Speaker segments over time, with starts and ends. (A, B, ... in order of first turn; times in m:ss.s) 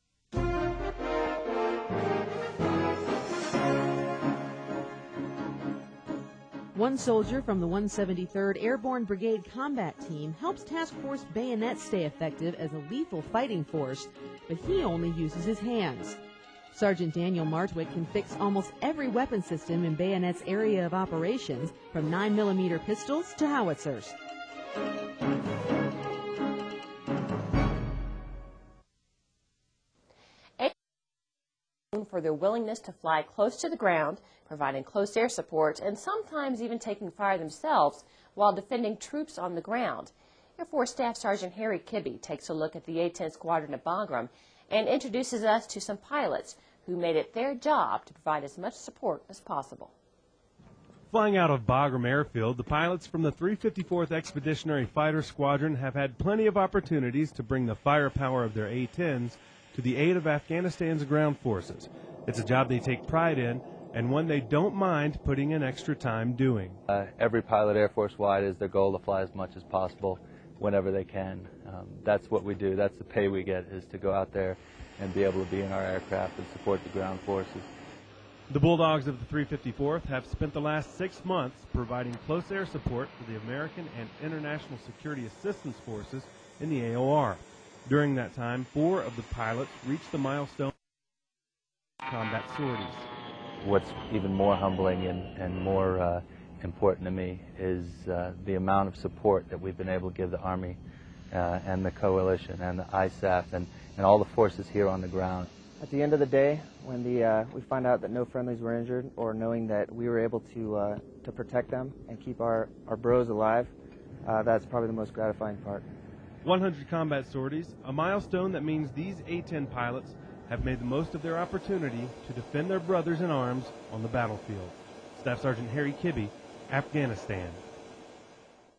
0:06.7-0:16.2 A
0:16.7-0:24.1 A
0:31.9-0:49.9 B
0:51.1-1:06.8 C
1:06.9-1:17.7 D
1:18.5-1:30.7 C
1:32.0-1:33.1 C
1:33.6-1:40.8 D
1:41.3-1:45.5 D
1:45.8-1:55.9 E
1:56.4-2:07.6 C